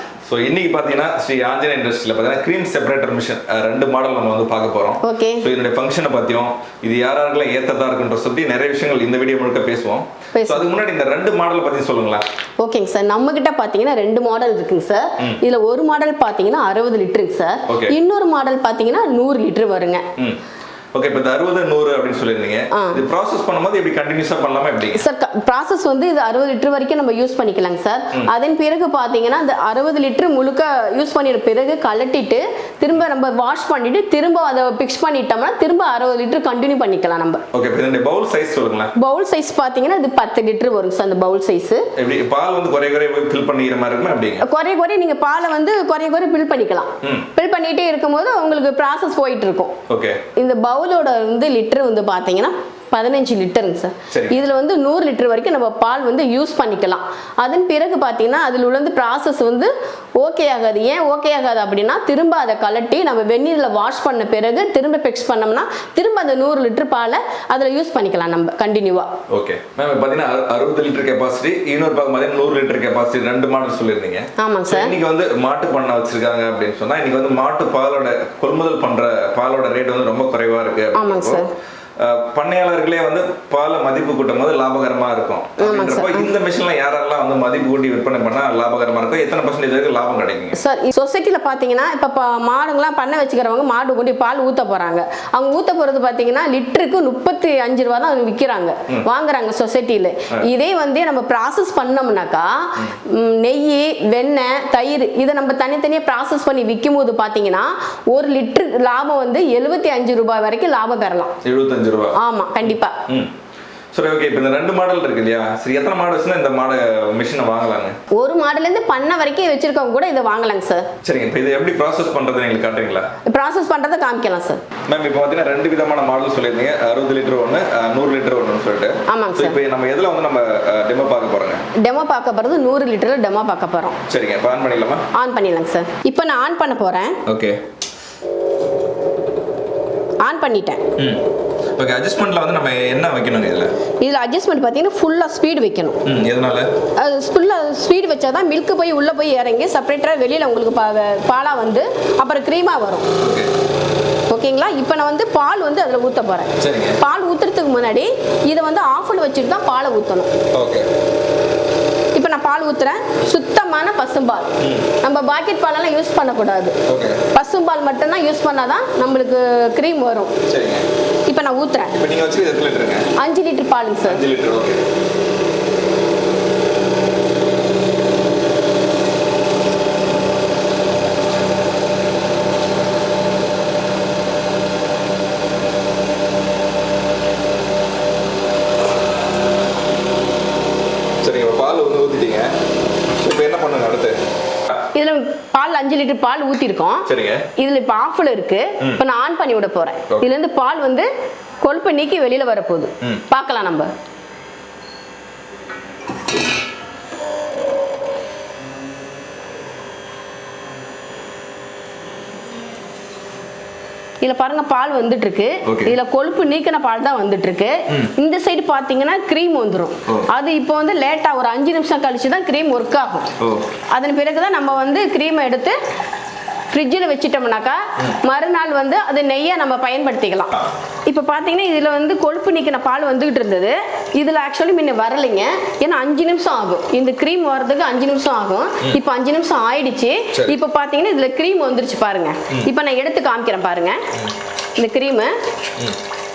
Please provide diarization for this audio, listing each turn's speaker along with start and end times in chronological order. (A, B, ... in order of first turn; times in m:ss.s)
0:00.3-0:12.2 A
0:05.0-0:05.4 B
0:10.4-0:10.7 B
0:12.6-0:20.0 B
0:17.7-0:18.0 A
0:20.9-0:25.0 A
0:22.7-0:23.0 B
0:25.0-0:37.4 B
0:37.5-0:38.9 A
0:39.0-0:41.9 B
0:42.0-0:44.4 A
0:44.4-0:49.8 B
0:49.9-0:50.2 A
0:50.4-1:09.1 B
0:54.1-0:54.4 A
1:09.3-1:21.5 A
1:14.4-1:15.0 B
1:20.9-1:21.5 B
1:22.0-1:30.6 A
1:25.6-1:26.3 B
1:30.6-1:51.3 B
1:51.4-1:52.2 A
1:52.2-1:53.0 B
1:53.9-1:58.0 A
1:58.1-2:00.9 B
2:01.0-2:03.1 A
2:03.3-2:04.6 B
2:04.9-2:11.6 A
2:09.1-2:09.6 B
2:11.8-2:14.0 B
2:14.1-2:15.1 A
2:15.1-2:17.2 B
2:17.3-2:17.6 A
2:20.2-2:20.8 B
2:21.0-2:23.7 A
2:24.0-2:26.0 B
2:26.0-2:26.7 A
2:27.0-2:33.1 B
2:33.2-2:33.5 A
2:34.3-2:40.3 B
2:36.6-2:37.0 A
2:40.5-2:40.9 A
2:42.1-2:46.8 B
2:44.6-2:44.9 A
2:46.9-2:47.2 A
2:47.3-2:50.3 B
2:50.5-2:50.9 A
2:51.3-2:52.0 B
2:51.9-2:53.1 A
2:53.2-2:54.2 B
2:54.1-2:54.8 A
3:11.2-3:12.5 A
3:13.2-3:14.2 A
3:14.9-3:21.1 B
3:17.1-3:17.5 A
3:21.6-3:23.9 B
3:34.2-3:43.3 B
3:35.7-3:36.0 A
3:43.4-3:43.7 A
3:43.9-3:45.8 B
3:46.7-3:50.6 B
3:51.1-4:04.0 B
4:04.8-4:05.3 B